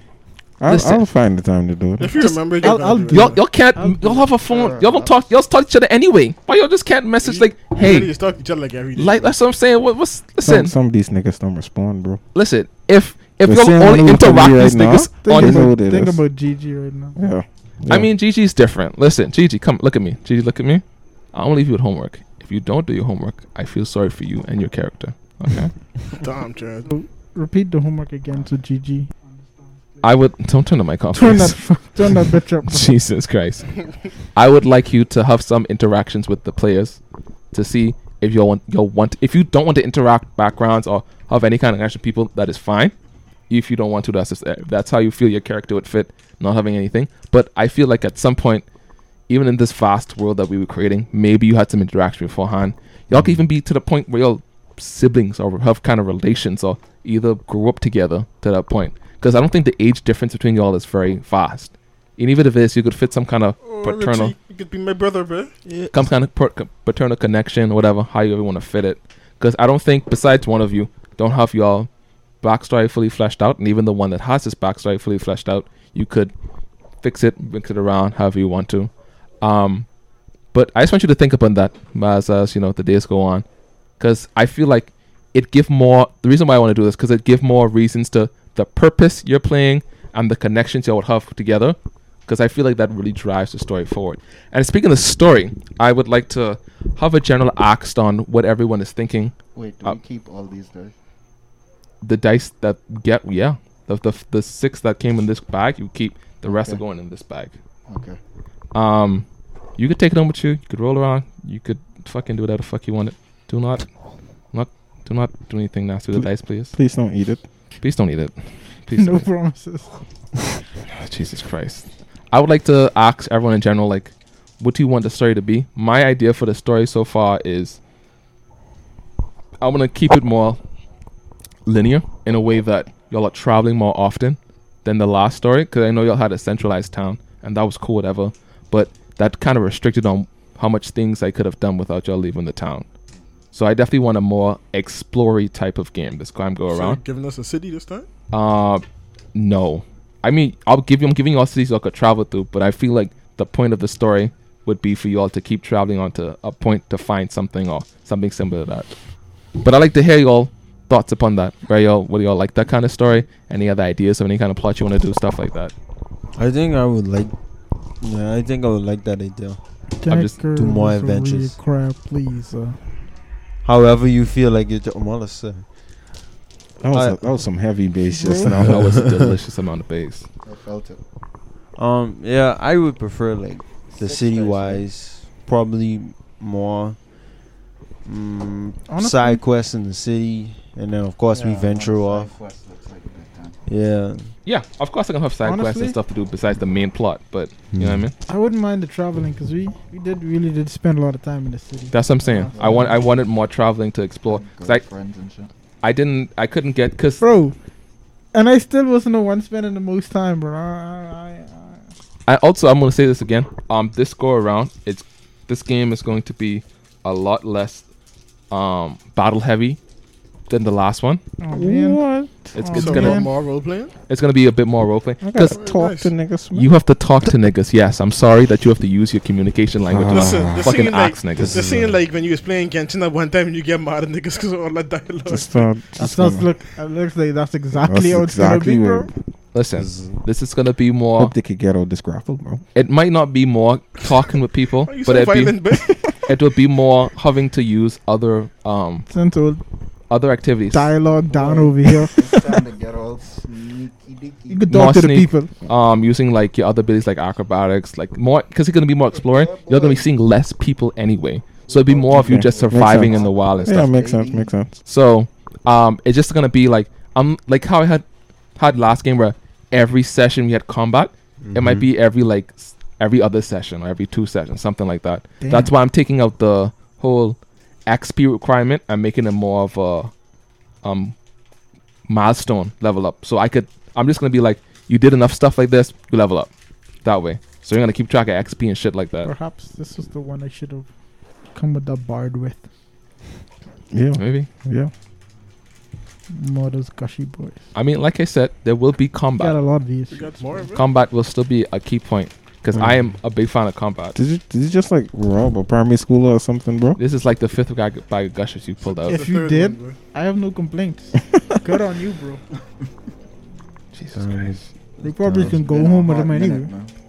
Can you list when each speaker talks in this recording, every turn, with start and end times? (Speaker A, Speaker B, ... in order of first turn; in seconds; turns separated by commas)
Speaker A: 0.6-2.2, Speaker B: 0.7-1.1, Speaker C: 2.0-3.4, Speaker D: 2.6-4.2, Speaker B: 3.1-8.1, Speaker E: 4.4-5.3, Speaker C: 7.2-9.3, Speaker B: 9.0-10.7, Speaker A: 10.4-12.2, Speaker B: 12.3-15.7, Speaker A: 13.4-16.2, Speaker D: 15.2-17.2, Speaker A: 17.2-18.1, Speaker B: 17.9-25.8, Speaker C: 26.2-26.9, Speaker D: 26.9-30.1, Speaker B: 30.0-37.0, Speaker D: 31.1-33.0, Speaker B: 37.5-43.0, Speaker B: 43.5-48.7, Speaker B: 49.3-64.3, Speaker C: 63.6-65.5, Speaker F: 65.7-66.1, Speaker B: 65.9-71.9, Speaker B: 72.4-76.3, Speaker B: 77.0-79.9, Speaker B: 80.5-83.5, Speaker B: 84.0-100.0, Speaker E: 99.5-100.9, Speaker B: 102.0-107.5, Speaker E: 106.5-106.8, Speaker E: 107.9-108.2, Speaker B: 108.7-109.3, Speaker B: 109.8-113.9, Speaker B: 114.5-116.7, Speaker A: 116.1-117.4, Speaker B: 117.8-119.3, Speaker D: 118.9-119.9, Speaker B: 121.0-127.8, Speaker B: 129.6-130.6, Speaker B: 131.7-142.9, Speaker B: 143.5-147.0, Speaker C: 146.7-148.1, Speaker B: 148.3-158.9, Speaker B: 159.6-165.7, Speaker F: 166.4-167.4, Speaker F: 167.9-169.6, Speaker D: 170.0-172.8, Speaker B: 170.1-170.4, Speaker F: 170.5-171.6, Speaker F: 173.6-175.7, Speaker A: 176.8-179.0, Speaker F: 176.9-177.4, Speaker D: 178.1-178.5, Speaker B: 178.6-180.3, Speaker F: 178.7-179.3, Speaker E: 180.4-181.0, Speaker F: 181.8-187.1, Speaker E: 183.9-184.9, Speaker F: 188.0-192.3, Speaker D: 188.9-189.4, Speaker E: 191.3-193.6, Speaker F: 193.7-194.3, Speaker B: 194.4-198.1, Speaker D: 195.4-196.0, Speaker F: 197.7-198.1, Speaker D: 198.2-203.0, Speaker B: 201.9-204.8, Speaker E: 202.5-203.0, Speaker E: 204.2-205.5, Speaker B: 205.8-207.2, Speaker D: 207.2-207.6, Speaker D: 208.3-211.8, Speaker B: 212.3-217.9, Speaker B: 218.5-219.8, Speaker B: 220.5-221.2, Speaker D: 221.4-223.3, Speaker A: 221.5-222.5, Speaker B: 222.6-223.2, Speaker C: 222.7-223.9, Speaker B: 224.1-225.6, Speaker A: 225.2-226.7, Speaker C: 225.5-226.1, Speaker B: 226.5-231.6, Speaker A: 229.8-230.7, Speaker C: 230.1-235.7, Speaker F: 231.4-232.0, Speaker A: 235.3-236.5, Speaker D: 236.0-239.1, Speaker A: 237.8-239.1, Speaker B: 239.5-241.3, Speaker F: 239.8-240.2, Speaker A: 241.2-242.6, Speaker B: 242.7-249.1, Speaker C: 244.8-246.0, Speaker D: 249.1-249.6, Speaker B: 250.1-250.9, Speaker D: 250.7-252.3, Speaker E: 251.3-254.7, Speaker D: 254.5-255.5, Speaker B: 254.7-263.9, Speaker E: 259.1-260.1, Speaker E: 261.7-264.5, Speaker A: 262.1-264.8, Speaker B: 264.9-268.1, Speaker B: 268.6-280.1, Speaker F: 271.4-271.9, Speaker D: 275.4-275.7, Speaker B: 280.8-281.1, Speaker B: 282.1-286.5, Speaker B: 287.0-289.3, Speaker D: 289.2-290.9, Speaker D: 291.5-292.7, Speaker A: 293.9-294.9, Speaker B: 294.2-294.5, Speaker D: 296.3-297.6, Speaker B: 297.7-299.6, Speaker D: 299.4-300.7, Speaker C: 300.1-300.8, Speaker B: 300.8-304.2, Speaker A: 302.7-303.0, Speaker A: 304.1-307.0, Speaker B: 307.0-309.3, Speaker C: 308.8-310.0, Speaker D: 309.1-312.4, Speaker B: 313.9-314.5, Speaker F: 314.1-315.6, Speaker D: 315.0-316.7, Speaker E: 315.4-316.9